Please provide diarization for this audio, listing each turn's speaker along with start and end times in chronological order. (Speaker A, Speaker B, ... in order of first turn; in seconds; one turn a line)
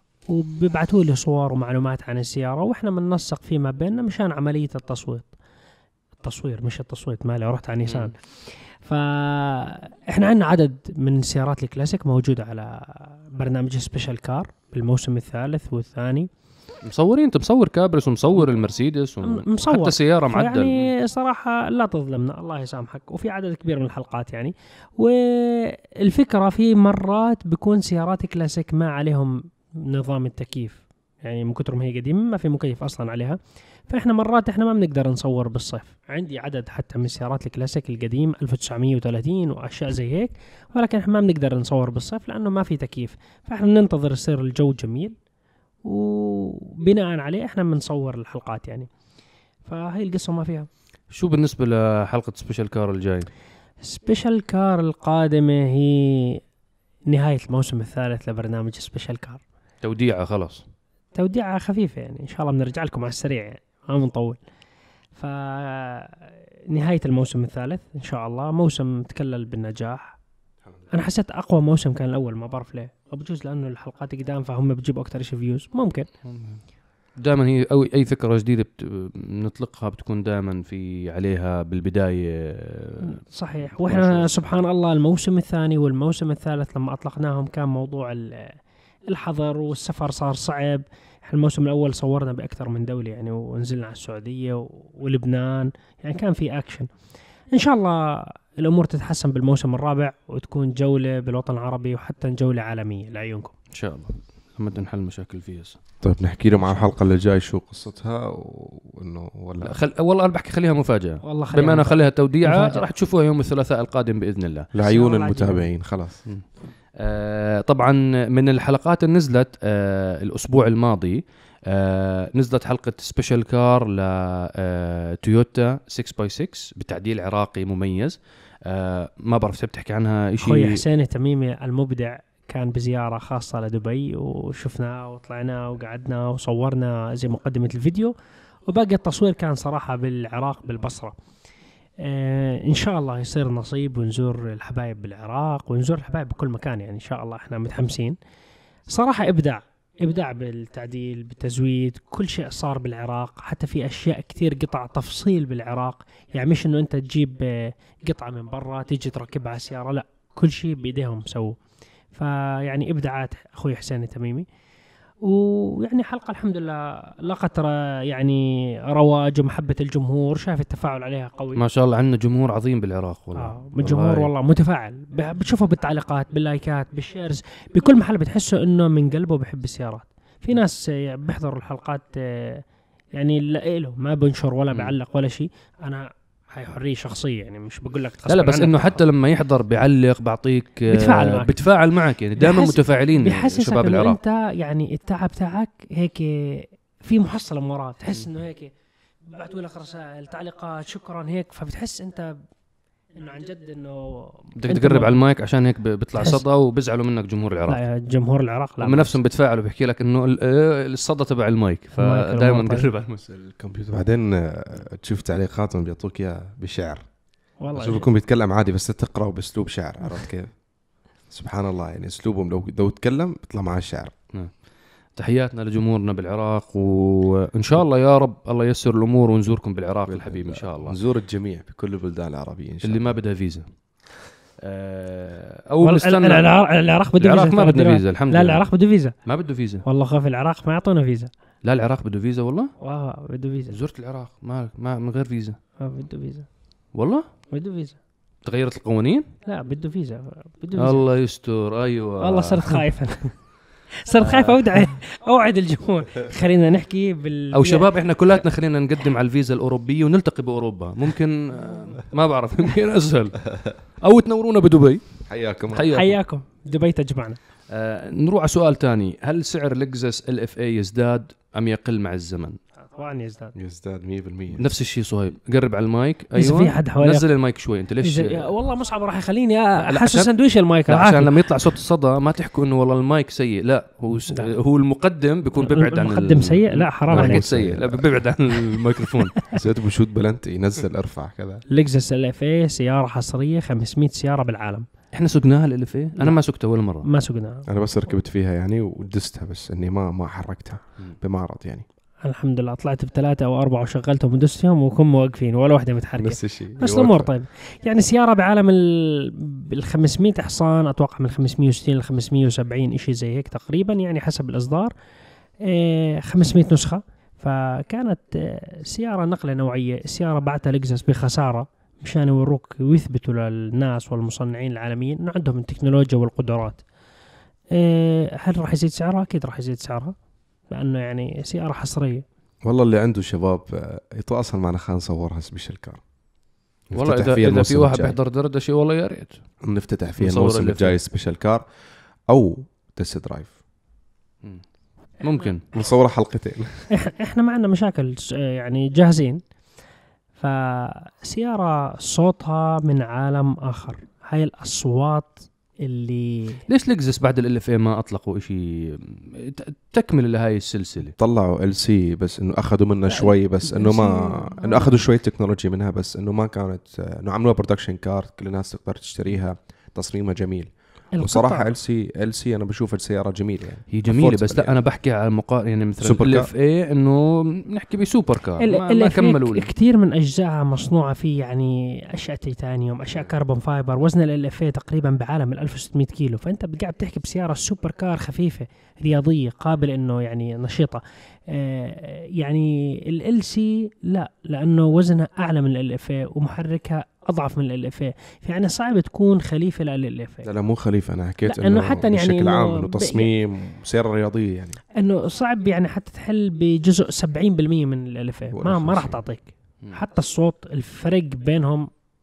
Speaker A: 0.3-5.3
Speaker A: 6.2-16.3
Speaker B: 7.8-8.1
Speaker B: 16.8-20.9
Speaker A: 19.2-33.4
Speaker A: 33.9-45.1
Speaker A: 45.8-48.9
Speaker A: 49.6-50.7
Speaker B: 51.1-53.3
Speaker A: 53.8-56.4
Speaker A: 57.1-59.4
Speaker B: 59.8-60.6
Speaker A: 61.1-64.4
Speaker A: 65.1-66.2
Speaker A: 66.7-70.1
Speaker A: 70.9-76.1
Speaker B: 76.2-76.6
Speaker B: 77.2-83.2
Speaker A: 83.1-88.5
Speaker B: 83.7-84.3
Speaker A: 89.1-96.9
Speaker A: 97.5-103.5
Speaker B: 103.7-105.8
Speaker C: 106.0-109.8
Speaker B: 109.6-114.7
Speaker A: 111.2-112.8
Speaker C: 114.7-116.2
Speaker A: 114.8-115.7
Speaker B: 117.0-130.8
Speaker A: 130.4-138.1
Speaker A: 138.7-141.1
Speaker A: 142.0-148.2
Speaker A: 148.9-161.6
Speaker A: 162.1-164.4
Speaker A: 165.2-171.6
Speaker B: 171.5-174.3
Speaker A: 173.4-182.6
Speaker A: 183.1-189.0
Speaker B: 188.3-194.2
Speaker A: 190.9-191.6
Speaker A: 192.4-198.7
Speaker A: 199.3-202.3
Speaker A: 203.2-205.2
Speaker B: 204.6-207.8
Speaker A: 207.7-209.1
Speaker B: 208.8-213.2
Speaker A: 212.0-212.9
Speaker C: 213.2-217.0
Speaker A: 217.6-218.1
Speaker C: 217.7-220.5
Speaker C: 221.3-224.1
Speaker B: 225.1-231.0
Speaker C: 230.1-233.1
Speaker B: 232.8-233.7
Speaker B: 234.6-236.4
Speaker A: 235.8-239.2
Speaker B: 237.2-238.7
Speaker B: 239.2-239.8
Speaker A: 239.8-241.3
Speaker B: 241.6-242.7
Speaker A: 242.8-243.7
Speaker B: 243.7-245.6
Speaker A: 245.8-246.5
Speaker B: 246.9-247.2
Speaker A: 247.5-248.0
Speaker B: 248.4-249.2
Speaker A: 249.4-251.0
Speaker B: 250.8-252.8
Speaker A: 252.2-253.3
Speaker A: 254.0-257.9
Speaker B: 254.2-254.8
Speaker B: 257.5-263.4
Speaker B: 264.0-265.0
Speaker C: 265.3-265.9
Speaker B: 265.7-266.2
Speaker A: 265.9-267.4
Speaker B: 267.7-272.6
Speaker A: 272.9-273.5
Speaker C: 273.5-274.6
Speaker B: 274.5-278.5
Speaker A: 276.4-277.2
Speaker A: 278.0-281.7
Speaker B: 279.8-280.3
Speaker B: 280.9-289.3
Speaker A: 285.6-287.4
Speaker C: 287.1-288.1
Speaker C: 289.5-291.6
Speaker A: 291.7-294.9
Speaker B: 295.1-297.1
Speaker A: 297.0-297.7
Speaker C: 297.7-301.9
Speaker A: 302.2-314.9
Speaker C: 306.2-307.3
Speaker A: 315.6-326.8
Speaker A: 327.7-330.1
Speaker A: 330.7-332.2
Speaker C: 332.6-336.0
Speaker C: 336.9-338.1
Speaker B: 336.9-339.4
Speaker C: 339.6-341.6
Speaker B: 340.2-340.9
Speaker C: 342.3-343.6
Speaker B: 345.2-345.6
Speaker C: 345.7-346.9
Speaker A: 346.9-349.4
Speaker A: 350.4-356.6
Speaker B: 356.7-361.1
Speaker C: 361.2-374.7
Speaker A: 363.1-365.0
Speaker A: 371.1-371.7
Speaker B: 373.9-379.7
Speaker C: 376.0-376.5
Speaker A: 378.6-400.5
Speaker C: 400.4-404.8
Speaker A: 401.4-403.3
Speaker A: 405.0-411.9
Speaker C: 408.5-409.2